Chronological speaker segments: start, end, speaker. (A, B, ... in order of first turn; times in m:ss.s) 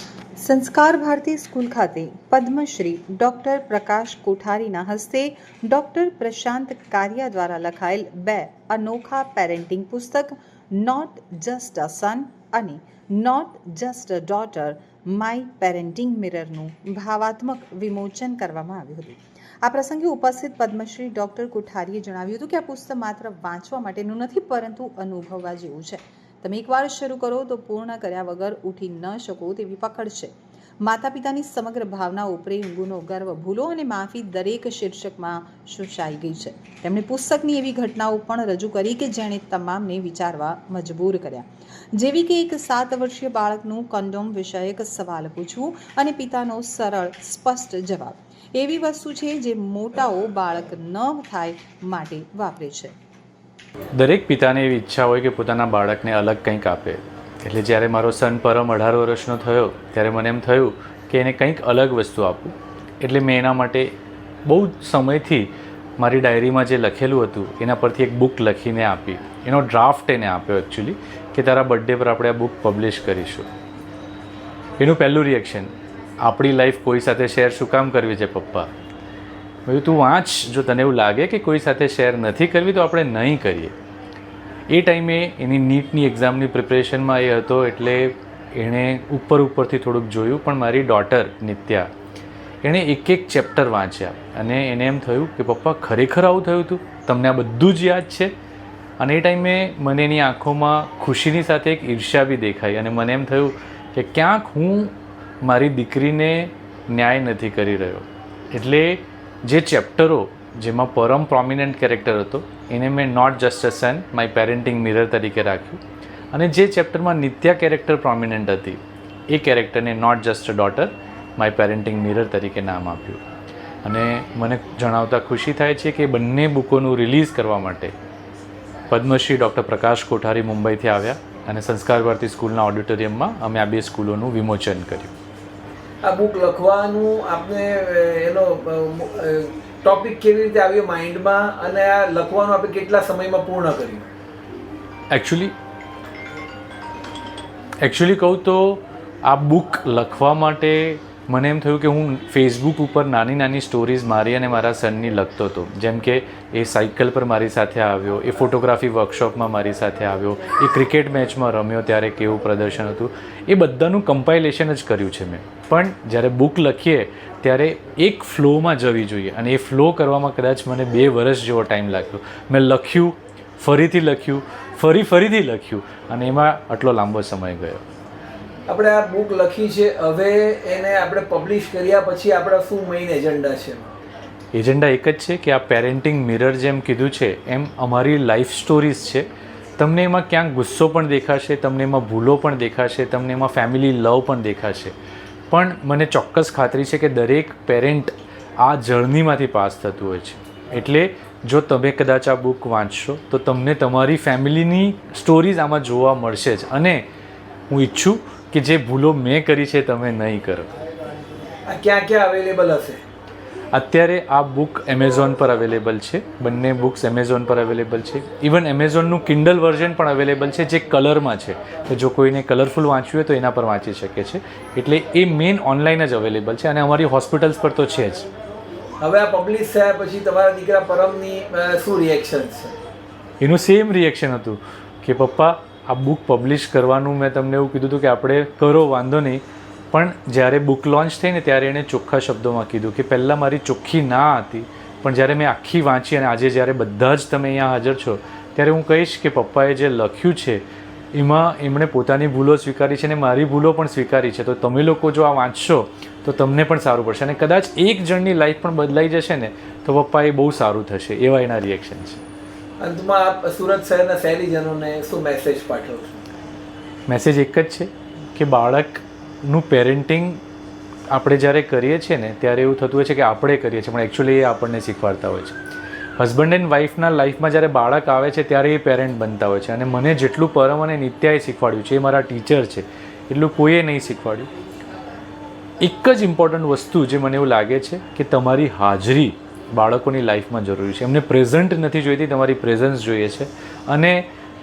0:00.4-0:30.3 A
0:30.8-0:52.9 A
0:54.0-1:03.9 B
1:04.5-1:13.5 B
1:14.8-1:18.7 B
1:19.7-1:23.7 B
1:24.7-1:31.9 B
1:32.6-1:38.3 B
1:39.0-1:44.9 B
1:45.4-1:55.8 B
1:56.3-2:03.2 B
2:03.8-2:07.9 B
2:08.9-2:15.1 B
2:16.0-2:24.1 C
2:25.1-2:25.5 B
2:27.8-2:57.8 B
2:58.7-3:03.9 C
3:04.5-3:09.3 B
3:09.8-3:14.9 B
3:15.5-3:27.0 B
3:27.7-3:30.7 B
3:31.7-3:33.0 C
3:33.7-3:48.3 B
3:49.0-3:52.8 C
3:53.4-4:22.2 B
4:22.8-4:26.2 C
4:27.1-4:30.4 B
4:31.1-4:35.6 B
4:36.2-4:44.5 B
4:45.8-4:54.2 B